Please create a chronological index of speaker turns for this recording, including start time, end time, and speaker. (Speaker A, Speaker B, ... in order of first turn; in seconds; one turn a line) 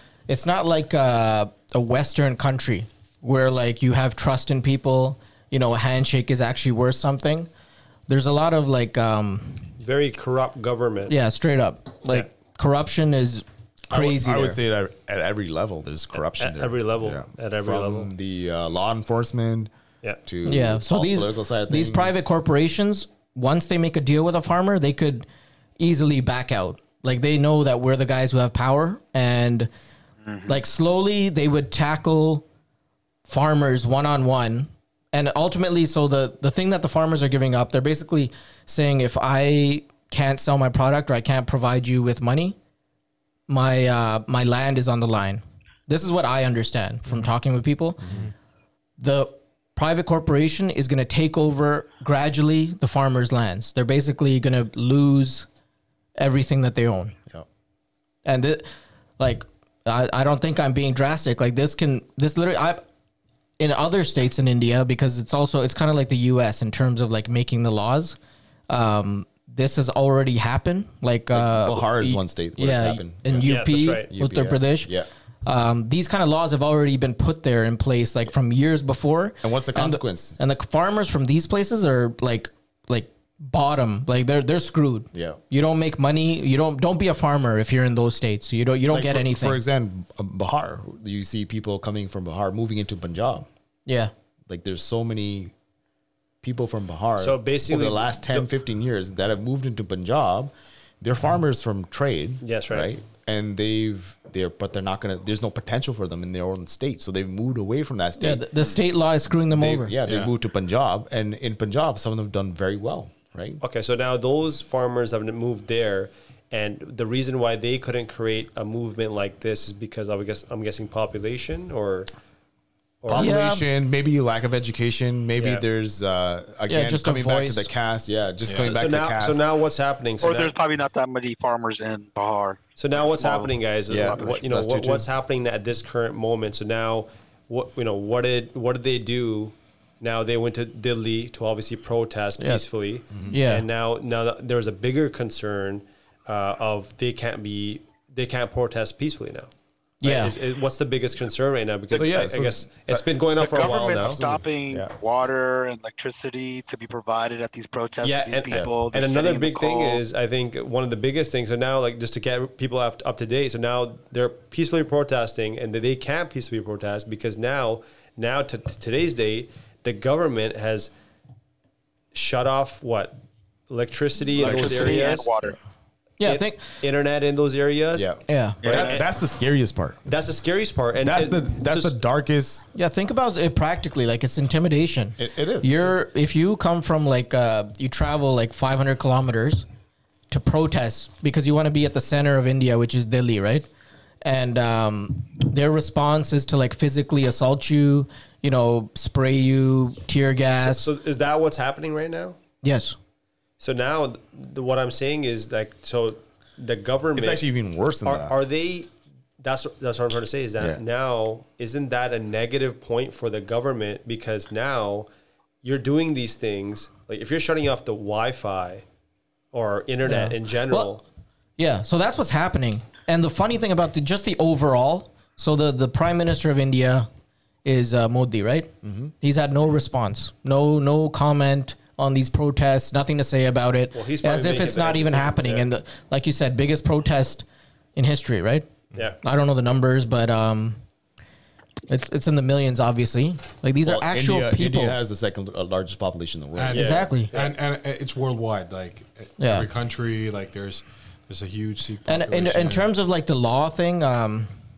Speaker A: 0.3-7.5
Speaker A: 8.1-9.7
Speaker B: 9.8-11.2
Speaker A: 11.1-14.6
Speaker C: 13.9-19.7
Speaker B: 16.4-18.1
Speaker C: 20.2-22.2
Speaker A: 20.4-25.2
Speaker A: 25.8-29.7
Speaker D: 30.3-30.5
Speaker A: 30.5-32.4
Speaker A: 33.3-42.5
Speaker A: 43.5-48.2
Speaker C: 48.0-48.3
Speaker A: 49.0-55.5
Speaker A: 56.2-57.2
Speaker A: 58.2-62.8
Speaker A: 63.6-68.2
Speaker A: 68.7-74.9
Speaker C: 71.3-75.1
Speaker B: 73.4-74.1
Speaker A: 75.4-89.6
Speaker C: 79.4-80.4
Speaker C: 85.1-85.4
Speaker C: 88.9-93.5
Speaker A: 93.8-94.1
Speaker C: 94.5-95.5
Speaker C: 96.4-108.4
Speaker B: 97.2-98.5
Speaker B: 102.4-103.0
Speaker A: 108.2-110.0
Speaker C: 109.5-113.6
Speaker E: 110.0-110.3
Speaker B: 113.6-122.1
Speaker B: 123.0-123.3
Speaker C: 123.1-129.4
Speaker A: 123.1-123.6
Speaker B: 125.4-125.6
Speaker A: 126.7-127.7
Speaker E: 128.4-128.7
Speaker B: 128.5-130.5
Speaker D: 130.2-133.5
Speaker B: 132.8-149.5
Speaker C: 133.9-135.1
Speaker A: 142.4-142.6
Speaker A: 143.3-143.7
Speaker A: 150.0-150.3
Speaker B: 150.0-154.2
Speaker C: 151.9-154.9
Speaker D: 153.4-160.0
Speaker B: 158.0-170.9
Speaker B: 172.1-173.2
Speaker B: 173.7-175.3
Speaker D: 174.3-175.6
Speaker C: 174.4-175.0
Speaker A: 176.2-176.7
Speaker B: 176.2-178.1
Speaker C: 177.9-180.0
Speaker A: 178.3-178.6
Speaker B: 178.6-179.1
Speaker D: 178.6-179.0
Speaker B: 180.1-181.9
Speaker C: 181.0-182.7
Speaker A: 182.7-189.7
Speaker C: 185.2-185.9
Speaker A: 190.3-193.7
Speaker A: 194.2-200.9
Speaker B: 200.6-202.4
Speaker A: 202.6-202.9
Speaker B: 203.6-207.4
Speaker C: 207.2-208.3
Speaker B: 208.0-208.9
Speaker B: 209.4-215.1
Speaker B: 215.6-218.8
Speaker B: 219.5-221.0
Speaker A: 220.0-220.9
Speaker A: 221.6-227.1
Speaker A: 227.6-238.7
Speaker C: 228.8-229.1
Speaker B: 233.9-235.7
Speaker A: 239.2-240.8
Speaker A: 241.9-245.0
Speaker C: 243.8-246.9
Speaker E: 246.6-252.9
Speaker B: 246.7-247.5
Speaker A: 246.8-247.3
Speaker A: 249.4-249.7
Speaker A: 252.1-254.5